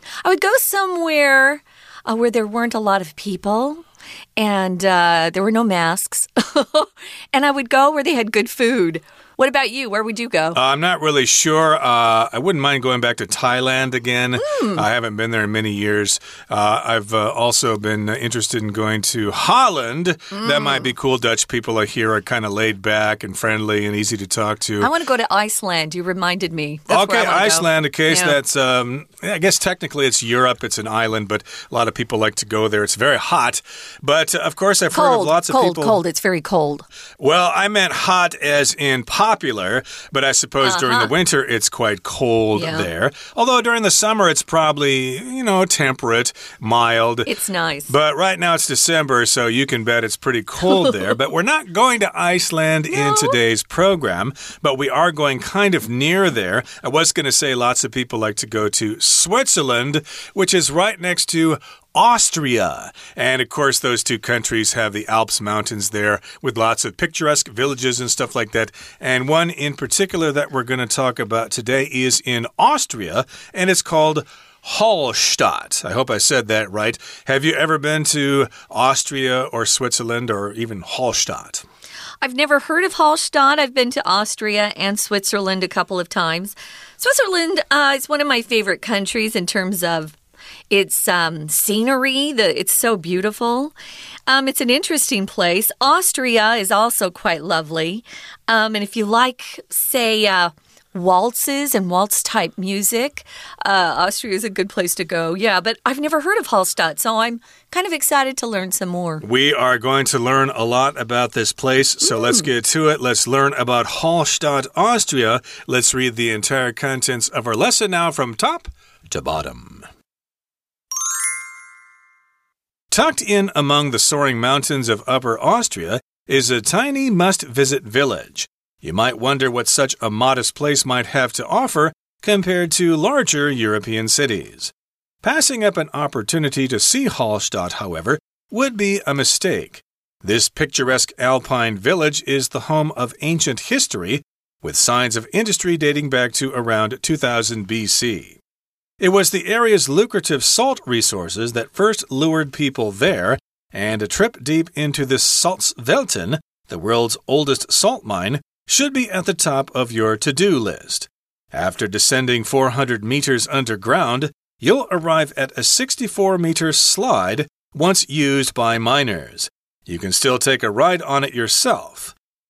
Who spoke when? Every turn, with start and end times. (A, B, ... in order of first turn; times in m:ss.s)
0:00.2-0:03.8 A
0:04.4-0:10.6 A
0:10.5-0:24.9 B
0:14.4-0:14.8 A
0:20.3-0:20.9 A
0:24.8-0:28.4 A
0:26.9-0:36.0 B
0:34.9-0:36.8 A
0:37.2-0:47.3 B
0:40.6-0:41.1 A
0:42.5-0:42.9 A
0:47.2-0:47.9 A
0:47.9-1:21.6 B
0:50.7-0:51.0 A
0:52.9-0:53.4 A
1:22.2-1:30.1 A
1:30.7-1:33.7 A
1:34.3-1:49.2 A
1:49.2-1:59.9 B
1:52.0-1:52.4 A
2:02.9-2:28.4 B
2:29.0-2:52.1 B